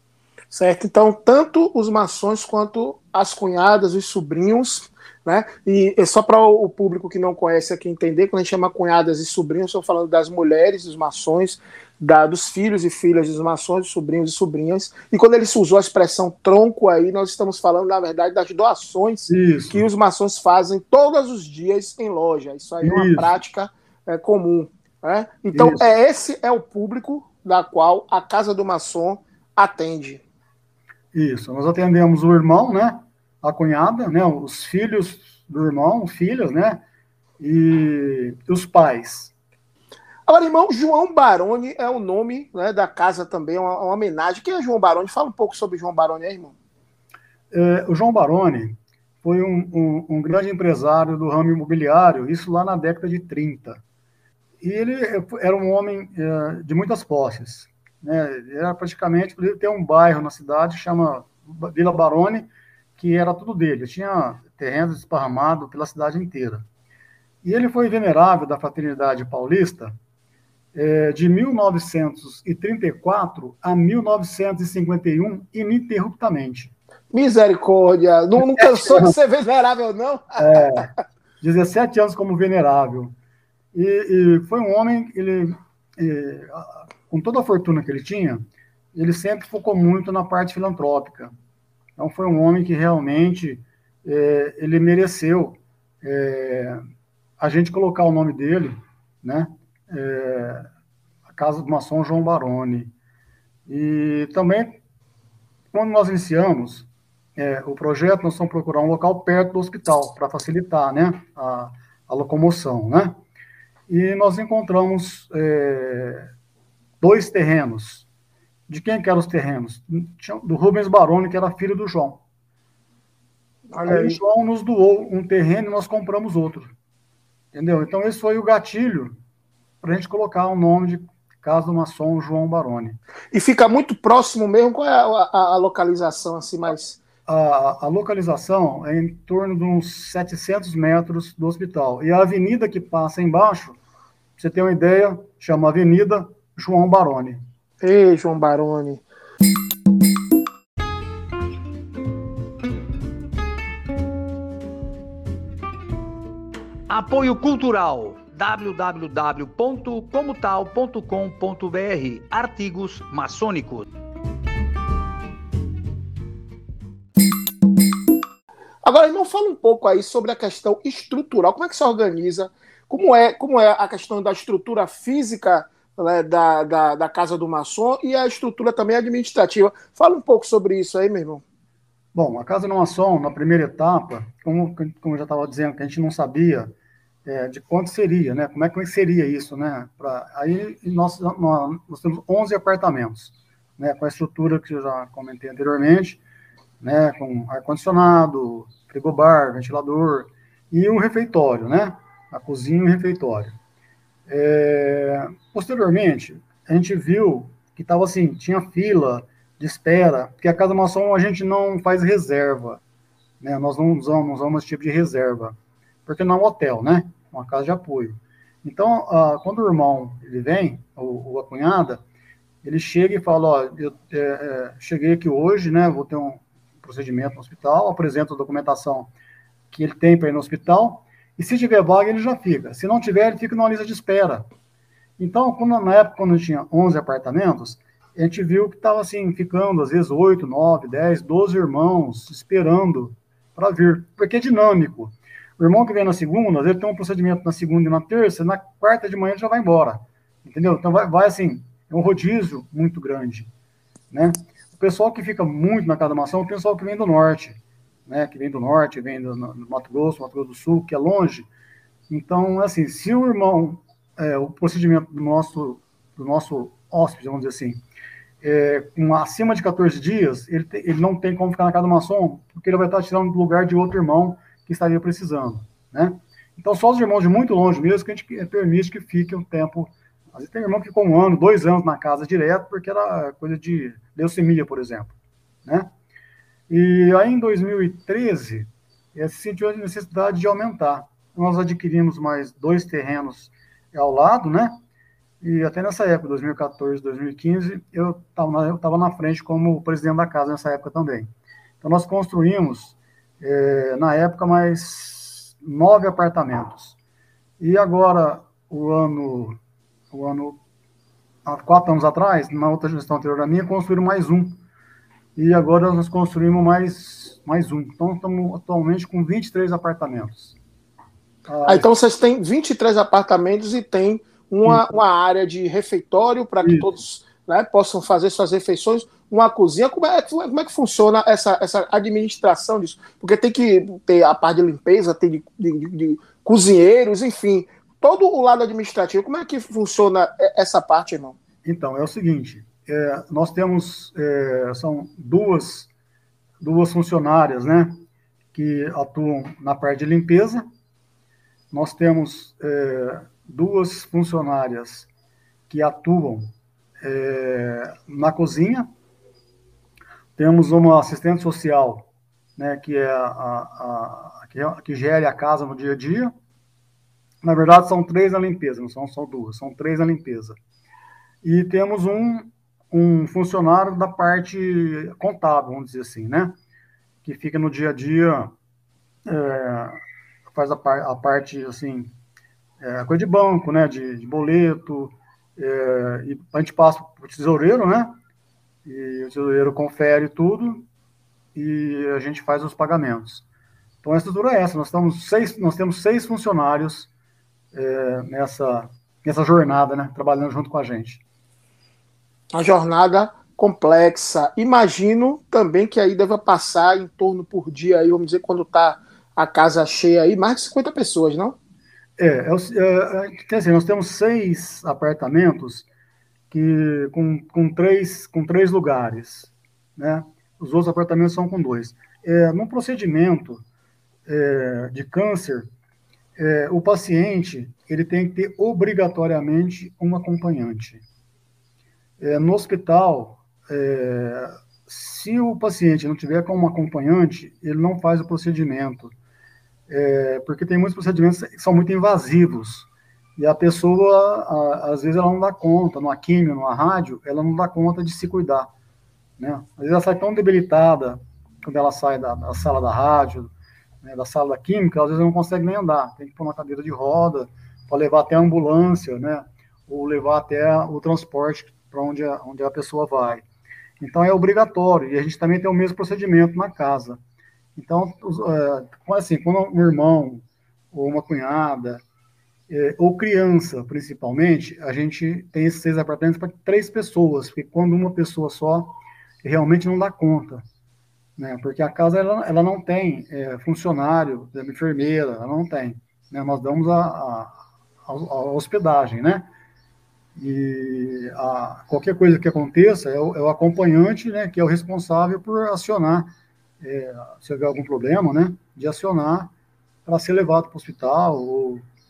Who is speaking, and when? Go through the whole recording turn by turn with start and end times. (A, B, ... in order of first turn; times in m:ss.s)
0:00.5-0:30.2 A
0:19.3-0:19.8 B
0:22.8-0:23.4 B
0:25.5-0:25.9 B
0:31.1-0:36.8 B
0:37.4-0:39.3 B
0:40.3-0:46.5 A
0:47.5-0:53.8 B
0:54.6-1:06.6 B
1:07.4-1:09.9 B
1:10.7-1:16.7 B
1:17.1-1:20.7 A
1:18.4-1:19.1 B
1:20.4-1:20.9 B
1:21.4-1:23.1 B
1:23.7-1:31.3 B
1:32.0-1:36.8 B
1:37.4-1:40.6 B
1:41.3-1:42.9 B
1:43.7-1:44.8 B
1:45.7-1:53.2 B
1:53.9-1:56.3 B
1:57.0-1:58.0 B
1:58.7-2:02.2 B
2:03.7-2:04.2 A
2:03.8-2:06.7 B
2:07.5-2:09.2 B
2:09.8-2:13.0 B
2:13.3-2:17.0 A
2:17.3-2:23.8 B
2:24.4-2:27.4 B
2:27.8-2:29.0 A
2:36.9-2:43.9 C
2:48.8-3:01.4 A
3:02.1-3:06.7 B
3:07.2-3:16.2 B
3:16.8-3:23.6 B
3:24.3-3:32.8 B
3:33.4-3:42.0 B
3:42.6-3:49.1 B
3:49.7-3:54.5 B
3:55.2-4:13.5 B
4:14.1-4:21.5 B
4:22.1-4:27.8 B
4:28.4-4:45.1 B
4:45.6-4:45.9 B
4:46.7-4:54.8 B
4:55.4-5:01.3 B
5:01.8-5:07.0 B
5:07.6-5:09.6 B
5:10.1-5:10.6 B
5:11.4-5:14.6 B
5:15.4-5:20.6 B
5:21.5-5:21.9 B
5:21.7-5:41.4 A
5:24.6-5:25.0 B
5:26.6-5:26.9 B
5:41.6-5:45.9 B
5:46.6-5:48.0 B
5:48.5-5:50.6 B
5:51.7-5:55.1 B
5:55.7-5:56.5 B
5:57.0-5:58.9 B
6:00.4-6:02.0 B
6:02.6-6:06.3 B
6:07.4-6:10.6 B
6:11.4-6:16.6 B
6:17.2-6:18.5 B
6:19.2-6:22.1 B
6:22.8-6:28.2 B
6:28.8-6:30.8 B
6:31.5-6:33.4 B
6:34.0-6:37.1 B
6:37.7-6:41.2 B
6:42.5-6:51.6 A
6:52.2-6:55.9 B
6:56.5-7:03.6 B
7:04.2-7:05.7 B
7:06.4-7:11.0 B
7:12.2-7:19.1 B
7:19.9-7:28.7 B
7:29.4-7:33.5 B
7:34.0-7:43.4 B
7:44.0-7:47.2 B
7:47.8-7:52.0 B
7:52.7-8:00.6 B
8:01.4-8:09.5 B
8:10.4-8:19.5 B
8:20.0-8:21.8 B